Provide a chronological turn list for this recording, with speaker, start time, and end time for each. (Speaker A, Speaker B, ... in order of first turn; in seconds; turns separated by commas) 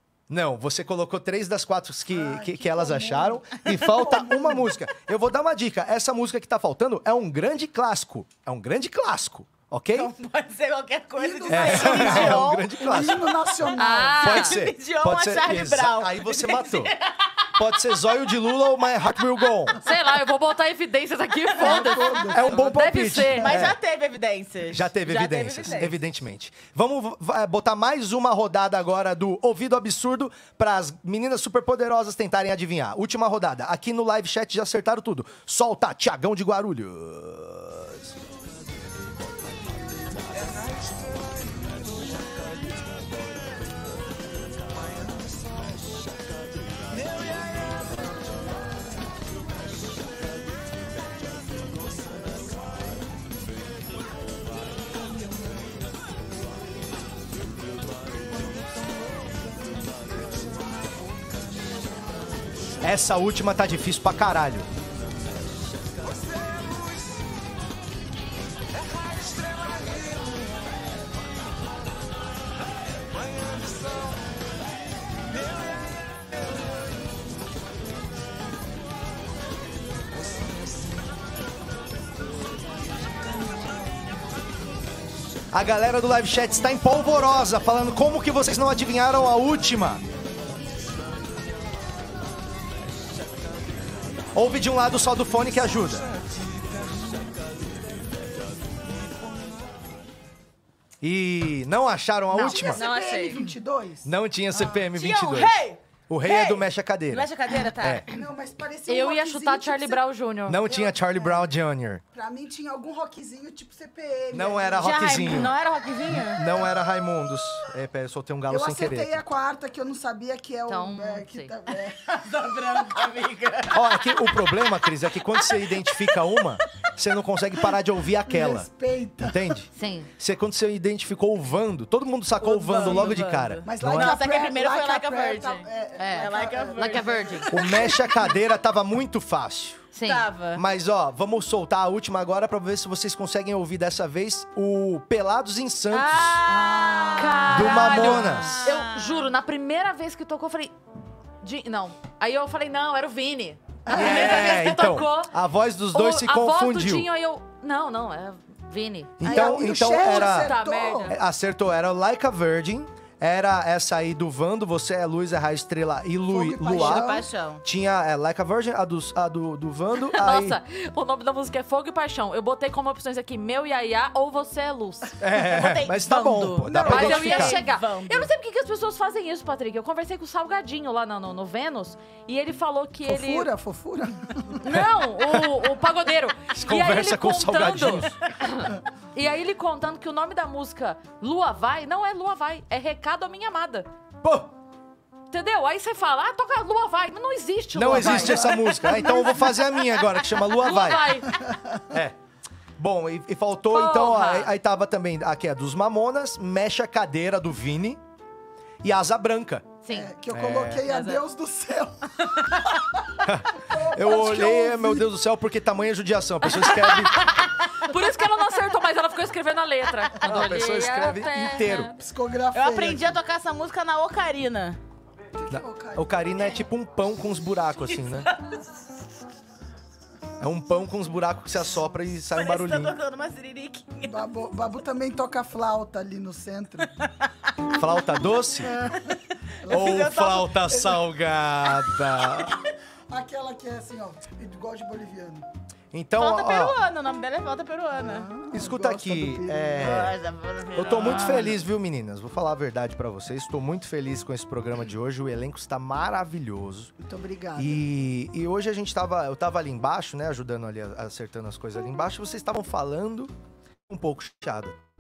Speaker A: 0.3-10.1, Speaker B: 2.1-4.7, Speaker C: 9.9-12.8, Speaker B: 11.2-14.2, Speaker A: 11.5-13.5, Speaker C: 13.7-17.5, Speaker D: 13.8-14.6, Speaker A: 14.2-16.9, Speaker A: 17.6-19.8, Speaker D: 19.8-23.6, Speaker B: 21.6-22.7, Speaker C: 21.6-22.1, Speaker A: 22.3-23.8, Speaker C: 23.3-25.9, Speaker A: 24.7-38.1, Speaker A: 62.8-64.7, Speaker A: 85.5-90.0, Speaker A: 94.3-96.1, Speaker A: 101.0-102.8, Speaker D: 102.3-103.5, Speaker B: 102.5-104.1, Speaker C: 102.8-103.4, Speaker A: 104.0-107.3, Speaker C: 104.7-108.1, Speaker A: 107.8-108.0, Speaker B: 108.1-110.0, Speaker D: 108.9-110.7, Speaker A: 110.5-112.0, Speaker B: 110.7-111.5, Speaker B: 112.1-115.4, Speaker A: 114.3-115.5, Speaker C: 114.8-116.5, Speaker A: 116.1-119.2, Speaker B: 118.5-122.1, Speaker D: 120.7-121.5, Speaker C: 122.1-124.8, Speaker A: 123.7-128.7, Speaker C: 125.3-126.1, Speaker B: 128.2-129.6, Speaker A: 129.2-134.2, Speaker D: 129.7-130.1, Speaker C: 132.4-137.8, Speaker B: 133.6-138.2, Speaker D: 136.0-137.7, Speaker A: 137.5-139.9, Speaker D: 139.9-140.2, Speaker C: 140.0-140.6, Speaker A: 140.6-146.4, Speaker D: 145.9-146.4, Speaker C: 146.1-149.3, Speaker B: 146.4-147.8, Speaker D: 147.2-150.7, Speaker A: 147.5-148.6, Speaker D: 151.4-155.3, Speaker B: 153.9-154.3, Speaker A: 153.9-157.1, Speaker D: 155.9-161.2, Speaker A: 159.2-167.1, Speaker B: 159.2-161.2, Speaker B: 166.3-167.2, Speaker C: 166.7-167.6, Speaker A: 167.6-170.6, Speaker D: 170.1-175.2, Speaker A: 175.2-177.6, Speaker C: 175.3-178.3, Speaker B: 176.6-177.4, Speaker D: 176.9-183.5, Speaker B: 183.1-184.6, Speaker D: 184.6-193.9, Speaker A: 186.5-188.2, Speaker A: 194.2-194.5, Speaker D: 195.3-198.6, Speaker A: 197.7-201.1, Speaker B: 197.9-199.6, Speaker D: 200.4-201.4, Speaker B: 201.2-201.8, Speaker A: 201.9-202.2, Speaker A: 202.8-208.0, Speaker D: 203.7-204.5, Speaker A: 208.8-209.8, Speaker D: 209.8-210.1, Speaker B: 209.9-212.4, Speaker A: 210.3-210.8, Speaker C: 210.8-211.2, Speaker C: 212.3-212.7, Speaker A: 213.2-217.3, Speaker B: 213.6-215.1, Speaker D: 216.6-222.0, Speaker A: 220.2-221.9, Speaker B: 222.0-223.2, Speaker C: 222.5-224.8, Speaker B: 225.3-226.2, Speaker A: 225.5-228.3, Speaker A: 230.4-233.0, Speaker C: 232.3-234.2, Speaker B: 234.1-236.9, Speaker A: 237.7-238.8, Speaker B: 238.7-239.1, Speaker B: 239.6-240.1, Speaker C: 239.6-240.8, Speaker A: 239.7-242.6, Speaker B: 243.1-245.5, Speaker A: 245.9-246.8, Speaker C: 246.2-248.3, Speaker B: 248.0-250.1, Speaker A: 248.5-250.2, Speaker C: 249.8-251.6, Speaker A: 250.7-256.9, Speaker B: 257.0-257.9, Speaker A: 257.6-263.3, Speaker A: 263.9-264.8